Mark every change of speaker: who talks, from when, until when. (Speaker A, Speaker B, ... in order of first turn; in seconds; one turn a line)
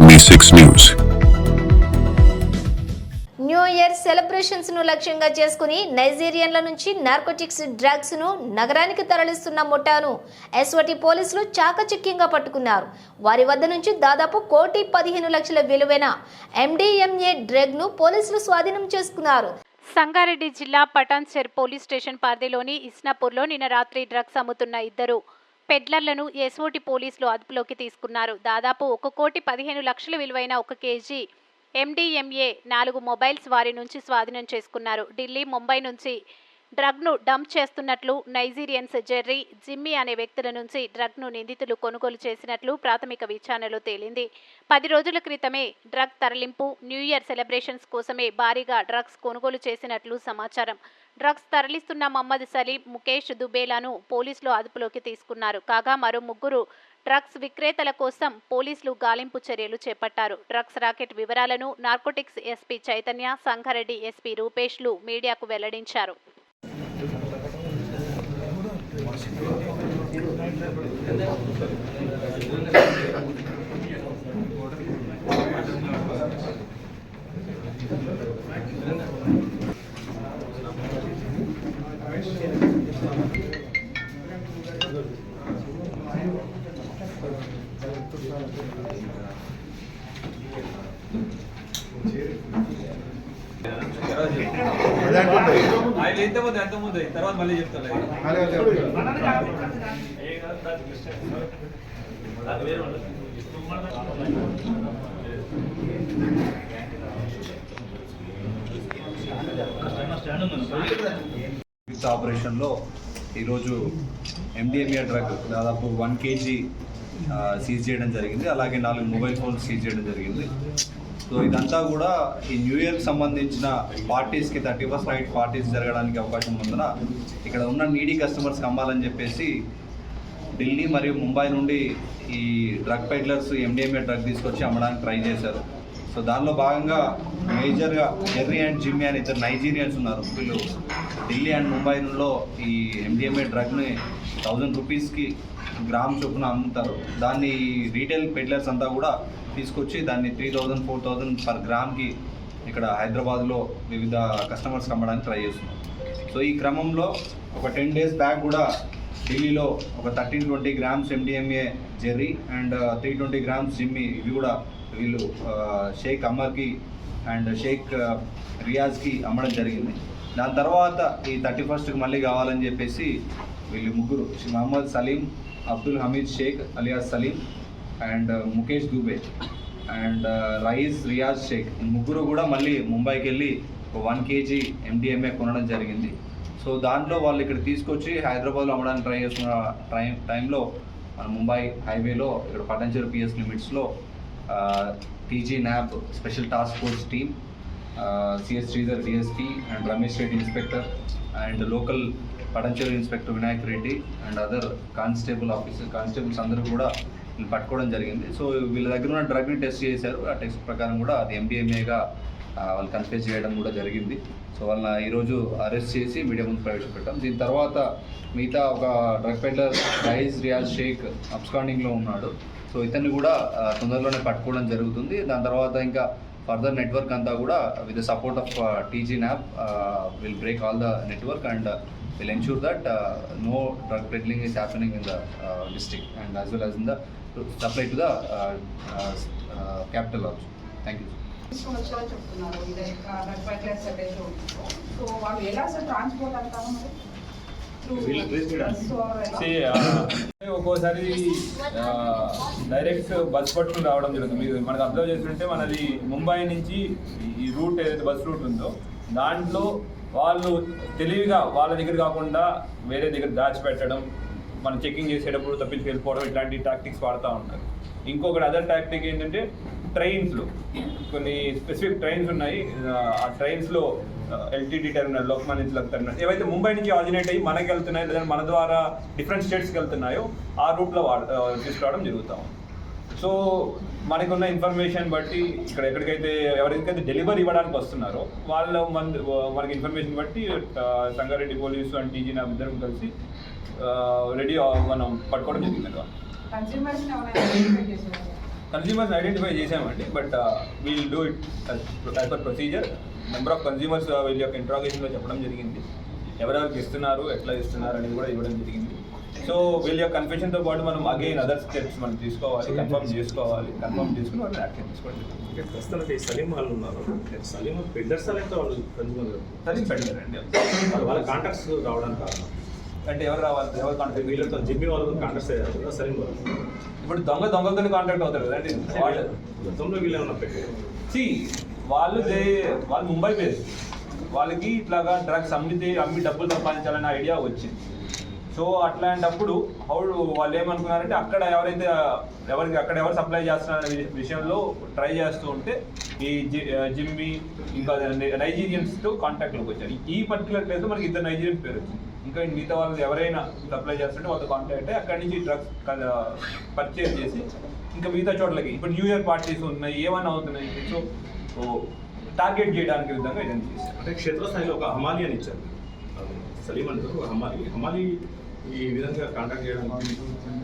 Speaker A: 3.4-19.5
Speaker B: 20.0-25.2
Speaker B: 25.7-31.2
Speaker B: 31.8-36.2
Speaker B: 36.8-66.2
Speaker C: 93.7-98.9
Speaker D: 111.9-112.7
Speaker D: 113.3-113.9
Speaker D: 114.6-116.6
Speaker D: 117.3-120.5
Speaker D: 121.3-126.9
Speaker D: 127.4-129.5
Speaker D: 130.5-135.6
Speaker D: 136.1-140.6
Speaker D: 141.2-152.1
Speaker D: 152.7-158.7
Speaker D: 159.2-173.1
Speaker D: 173.7-177.4
Speaker D: 178.0-179.2
Speaker D: 179.9-190.6
Speaker D: 191.2-193.9
Speaker D: 194.5-197.3
Speaker D: 198.0-212.0
Speaker D: 212.6-241.1
Speaker E: 241.5-246.9
Speaker E: 247.8-249.5
Speaker F: 247.9-248.9
Speaker C: 249.4-264.1
Speaker C: 264.6-270.5
Speaker C: 271.1-282.5
Speaker C: 283.1-293.1
Speaker C: 293.8-296.1
Speaker E: 296.5-298.4
Speaker C: 298.7-305.8
Speaker C: 306.4-315.4
Speaker F: 315.5-319.6
Speaker C: 319.6-321.4
Speaker F: 320.9-322.5
Speaker C: 323.1-324.7
Speaker F: 324.1-326.4
Speaker C: 327.0-329.3
Speaker F: 328.9-330.8
Speaker C: 331.1-333.6
Speaker C: 334.3-337.8
Speaker C: 338.5-361.0
Speaker C: 361.6-361.8
Speaker C: 362.4-363.9
Speaker F: 364.0-368.1
Speaker F: 368.6-370.2